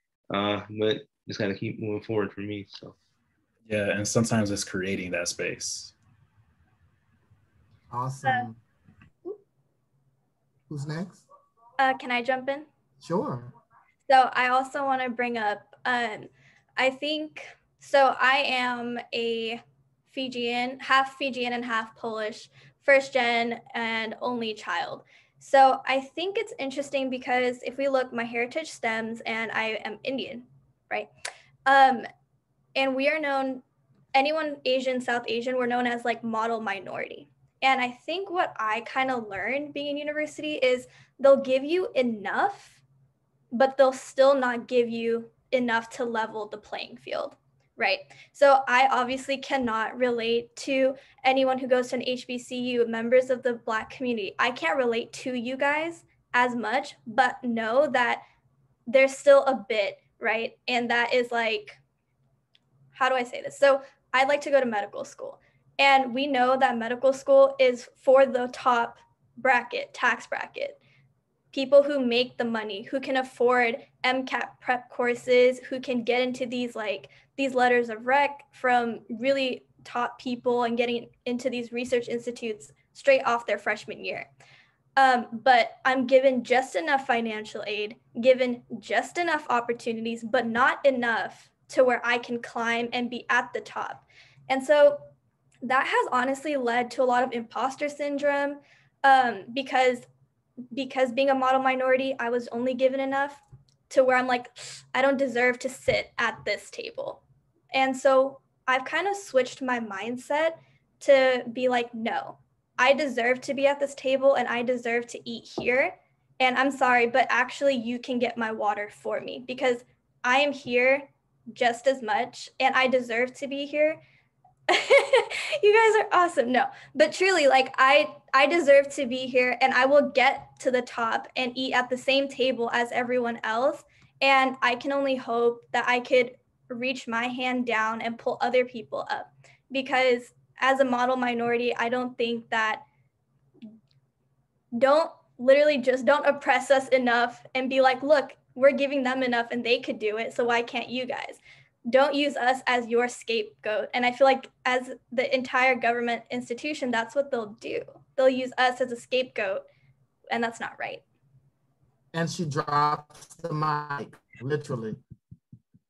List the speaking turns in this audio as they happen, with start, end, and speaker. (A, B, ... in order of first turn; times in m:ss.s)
0:00.3-0:03.0 A
0:03.7-0:05.9 B
0:07.9-0:08.6 C
0:10.7-0:11.2 C
0:11.8-0:12.7 D
0:13.0-0:13.5 C
0:14.1-0:31.1 D
0:31.7-0:32.1 D
0:32.8-0:33.6 D
0:34.2-0:42.8 D
0:43.5-0:58.2 D
0:58.9-1:01.8 D
1:03.0-1:10.8 D
1:11.5-1:24.3 D
1:25.0-1:35.0 D
1:35.6-1:40.1 D
1:40.7-2:04.0 D
2:04.7-2:22.8 D
2:24.7-2:39.6 D
2:40.3-2:41.0 D
2:42.1-2:45.0 C